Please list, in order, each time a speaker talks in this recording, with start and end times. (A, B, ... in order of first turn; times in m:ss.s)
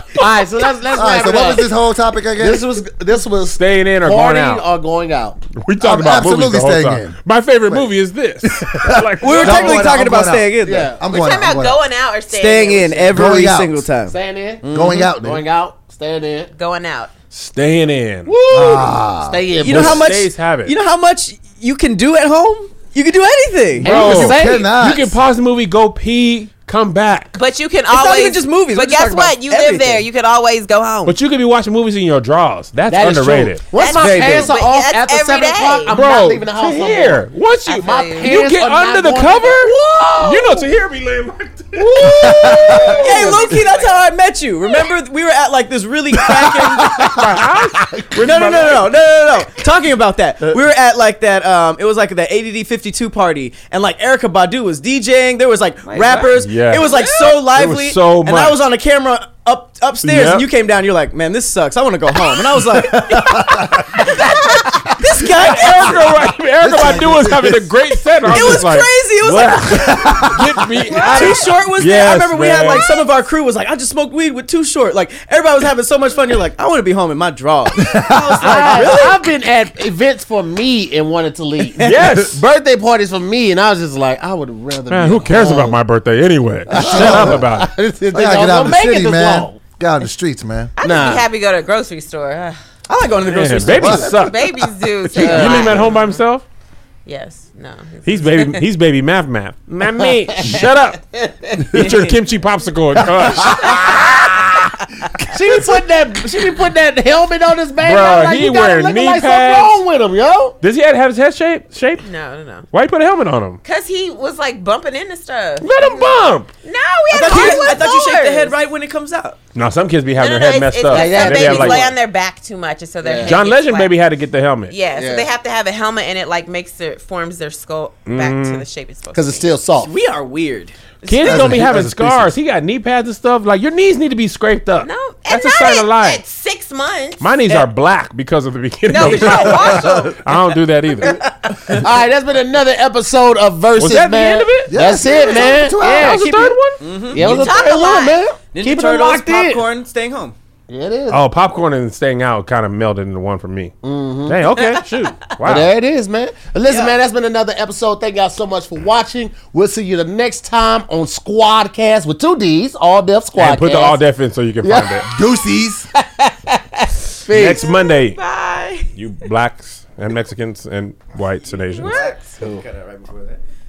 0:00.2-0:01.7 A
0:01.0-0:02.6 B
0:02.4-0:05.4 A
0:03.4-0:04.6 C
0:05.6-0:09.9 C
0:05.8-0:07.2 B
0:08.4-0:11.8 B
0:09.2-0:10.9 D
0:10.6-0:11.0 A
0:11.1-0:13.3 E
0:12.3-0:15.1 D
0:13.1-0:13.8 B
0:14.1-0:16.5 A
0:14.7-0:15.4 B
0:16.6-0:17.1 E
0:17.3-0:18.3 C
0:18.3-0:18.9 D
0:18.5-0:20.1 A
0:18.5-0:19.4 B
0:19.6-0:23.9 D
0:19.6-0:20.7 C
0:23.8-0:24.7 A
0:23.8-0:27.4 C
0:23.9-0:25.1 B
0:27.4-0:31.2 E
0:27.9-0:30.0 D
0:31.0-0:34.4 C
0:32.9-0:40.6 A
0:33.7-0:35.9 E
0:34.0-0:34.4 D
0:35.9-0:42.2 C
0:37.6-0:38.3 E
0:40.0-0:40.3 D
0:41.8-0:47.2 D
0:42.0-0:43.0 B
0:42.0-0:43.3 A
0:42.1-0:43.9 E
0:43.1-0:43.4 C
0:46.3-0:48.0 B
0:47.0-0:48.9 C
0:48.1-1:04.4 D
0:55.9-0:57.4 E
0:56.4-0:56.9 C
0:57.5-0:58.6 C
1:00.0-1:00.5 C
1:02.8-1:04.2 B
1:03.3-1:03.6 C
1:04.2-1:04.7 E
1:05.0-1:06.0 D
1:05.3-1:12.8 C
1:05.8-1:06.1 B
1:06.6-1:07.7 B
1:08.2-1:10.3 D
1:09.8-1:10.6 B
1:10.9-1:19.2 D
1:12.7-1:13.1 E
1:17.8-1:18.4 B
1:18.4-1:25.8 A
1:21.8-1:22.4 C
1:24.9-1:27.7 C
1:26.7-1:29.6 A
1:26.7-1:27.4 B
1:28.1-1:30.7 B
1:30.8-1:32.6 E
1:30.8-1:31.3 A
1:32.9-1:34.1 D
1:33.3-1:36.4 C
1:33.7-1:34.3 B
1:34.0-1:36.2 E
1:35.2-1:35.7 A
1:35.4-1:35.7 D
1:37.0-1:38.6 E
1:38.0-1:44.2 C
1:40.0-1:41.9 A
1:43.4-1:43.8 B
1:43.6-1:44.2 E
1:45.2-1:50.6 A
1:47.8-1:49.8 C
1:50.6-1:52.0 C
1:52.0-1:52.6 E
1:52.7-1:53.6 C
1:53.6-1:55.8 E
1:55.6-1:56.5 C
1:56.6-1:58.5 E
1:57.1-1:59.4 D
1:57.3-1:57.9 C
1:59.6-2:01.9 C
2:00.2-2:03.9 E
2:00.9-2:01.9 A
2:03.0-2:03.4 A
2:03.2-2:04.7 C
2:04.7-2:09.5 E
2:04.9-2:05.3 A
2:08.0-2:08.6 C
2:09.1-2:09.9 A
2:09.8-2:10.8 D
2:11.0-2:16.2 C
2:11.2-2:12.3 B
2:14.8-2:17.6 E
2:17.2-2:21.2 C
2:18.9-2:20.4 E
2:19.0-2:20.1 B
2:21.0-2:21.8 E
2:21.7-2:26.5 A
2:23.8-2:24.7 C
2:24.7-2:26.3 B
2:25.8-2:26.8 C
2:26.0-2:27.6 D
2:27.1-2:29.6 A
2:27.2-2:28.2 E
2:28.5-2:30.3 D
2:30.7-2:31.2 A
2:31.1-2:33.7 C
2:33.8-2:34.4 A
2:34.3-2:35.7 C
2:35.4-2:44.0 A
2:36.7-2:37.0 D
2:43.4-2:45.1 C
2:44.6-2:45.1 A
2:45.0-2:45.9 B
2:46.0-2:47.6 A
2:47.3-2:48.2 C
2:47.4-2:48.9 E
2:49.0-2:52.0 C
2:51.7-2:52.2 E
2:51.8-2:53.4 D
2:52.4-2:52.6 A